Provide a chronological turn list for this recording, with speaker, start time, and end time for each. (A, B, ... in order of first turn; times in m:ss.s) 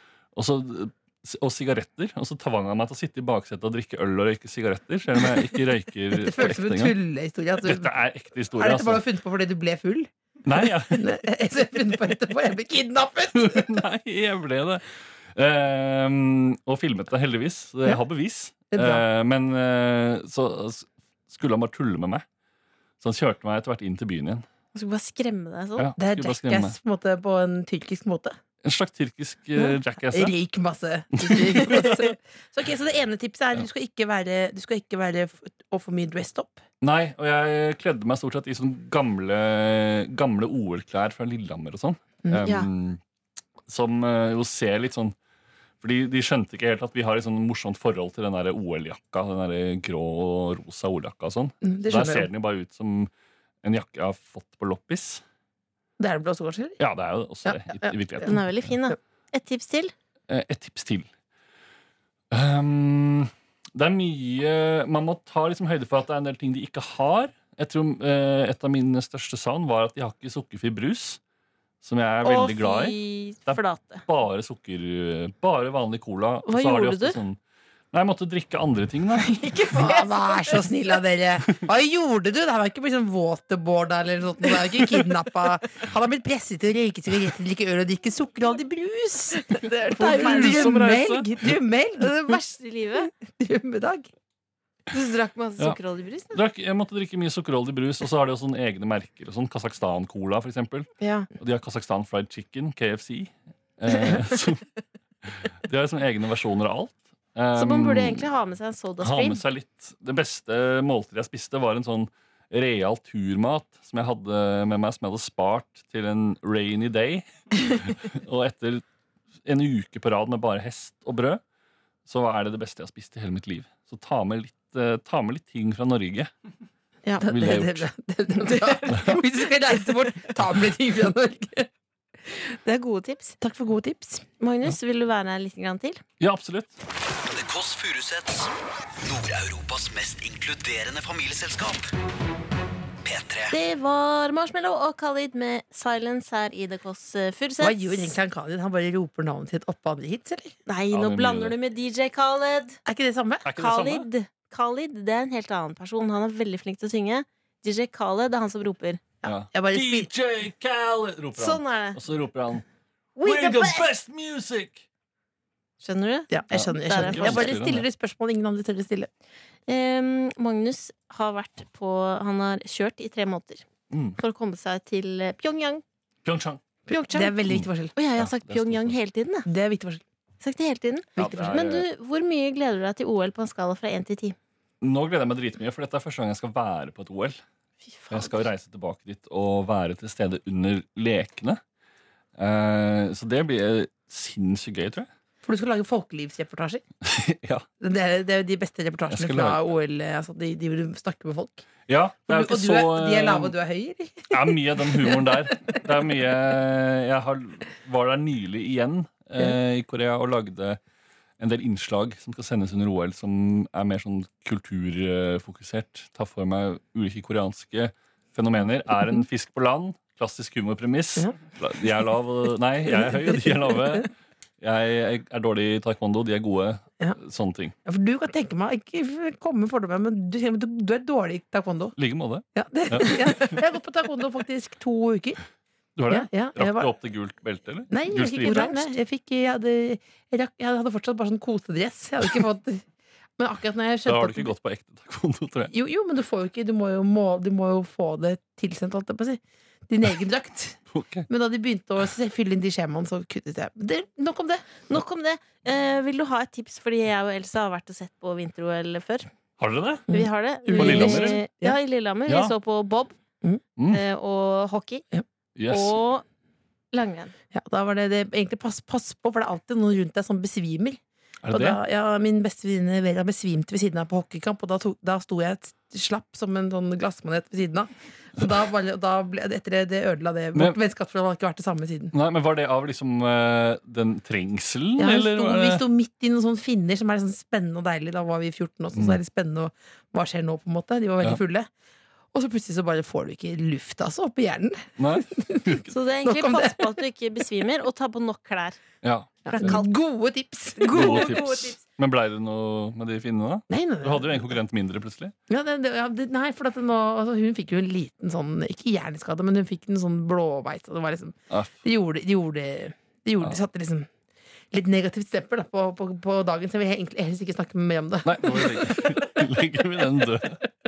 0:00.3-0:06.9 A
0:06.1-0:07.9 B
0:07.6-0:09.0 A
0:08.6-0:13.8 B
0:10.4-0:11.1 A
0:13.3-0:22.2 A
0:18.7-0:19.0 B
0:23.0-0:24.4 A
0:24.7-0:25.9 C
0:25.8-0:26.7 A
0:26.0-0:28.4 B
0:28.6-0:30.3 A
0:29.6-0:36.6 B
0:31.2-0:32.0 A
0:36.8-0:43.0 A
0:43.7-0:45.1 A
0:45.8-0:53.1 A
0:51.6-0:52.3 B
0:53.6-0:55.2 A
0:56.0-0:56.8 B
0:56.8-0:58.7 A
0:57.4-0:58.3 B
0:58.2-0:59.9 C
1:00.3-1:01.1 A
1:02.3-1:11.2 A
1:11.8-1:13.0 A
1:12.2-1:14.0 C
1:13.5-1:17.4 A
1:16.4-1:17.2 C
1:17.9-1:19.3 A
1:19.2-1:20.7 C
1:19.7-1:32.4 B
1:29.4-1:31.0 C
1:30.0-1:31.3 A
1:32.0-1:33.1 C
1:33.0-1:34.1 B
1:34.9-1:36.4 C
1:36.3-1:44.6 A
1:41.0-1:41.3 C
1:45.2-1:48.3 A
1:47.6-1:49.4 C
1:49.0-1:58.8 A
1:59.4-2:01.4 A
2:02.0-2:06.3 A
2:07.0-2:07.3 C
2:07.2-2:11.7 B
2:07.2-2:07.9 A
2:08.4-2:09.2 C
2:12.6-2:13.4 C
2:13.4-2:14.2 B
2:14.4-2:16.0 C
2:16.2-2:16.7 A
2:17.2-2:21.9 D
2:23.0-2:23.6 D
2:23.5-2:28.2 C
2:27.6-2:30.6 B
2:30.7-2:32.8 C
2:30.9-2:31.5 A
2:32.8-2:33.5 B
2:33.4-2:34.1 A
2:33.6-2:39.0 C
2:39.2-2:40.1 B
2:39.2-2:42.6 A
2:41.4-2:42.0 C
2:43.2-2:43.9 C
2:43.2-2:44.8 A
2:45.8-2:47.5 C
2:46.3-2:49.1 B
2:46.5-2:47.8 A
2:49.7-2:53.6 C
2:53.9-2:54.2 A
2:54.2-2:55.8 C
2:56.2-2:56.6 A
2:56.9-2:57.4 C
2:57.1-2:57.9 B
2:57.5-2:59.0 A
2:58.0-2:59.5 C
2:59.4-3:00.0 B
3:00.4-3:04.4 C
3:01.2-3:01.6 B
3:01.2-3:01.8 A
3:04.8-3:07.4 A
3:07.8-3:08.4 C
3:08.1-3:11.6 A
3:12.4-3:15.1 A
3:15.4-3:16.8 B
3:17.0-3:17.6 A
3:17.8-3:21.6 B
3:19.1-3:19.6 A
3:21.9-3:23.5 A
3:22.3-3:25.5 B
3:24.3-3:30.8 A
3:31.4-3:44.1 A
3:42.9-3:44.0 B
3:44.6-3:47.7 A
3:47.8-3:52.0 B
3:52.0-3:53.6 A
3:52.5-3:55.4 B
3:56.0-3:58.7 A
3:56.1-3:56.9 B
3:57.9-4:02.8 B
3:58.4-3:58.9 C
4:03.4-4:04.5 B
4:04.0-4:05.7 A
4:05.7-4:14.7 B
4:10.9-4:11.2 A
4:14.9-4:19.3 C
4:19.6-4:20.1 A
4:20.1-4:23.1 C
4:20.1-4:21.8 B
4:20.7-4:21.4 A
4:22.3-4:22.5 A
4:23.8-4:24.0 A
4:23.9-4:25.0 C
4:25.6-4:26.0 A
4:25.7-4:26.2 C
4:26.9-4:27.3 C
4:27.5-4:31.0 B
4:31.4-4:31.8 A
4:31.5-4:42.1 B
4:42.1-4:45.8 A
4:45.0-4:51.7 B
4:52.3-4:57.0 B
4:55.0-4:55.9 A
4:55.9-4:58.8 C
4:59.0-4:59.8 A
4:59.4-5:01.4 B
4:59.5-4:59.9 C
5:00.8-5:01.8 C
5:00.9-5:05.3 A
5:03.7-5:04.6 B
5:05.5-5:14.1 B
5:14.7-5:19.2 B
5:18.2-5:20.6 A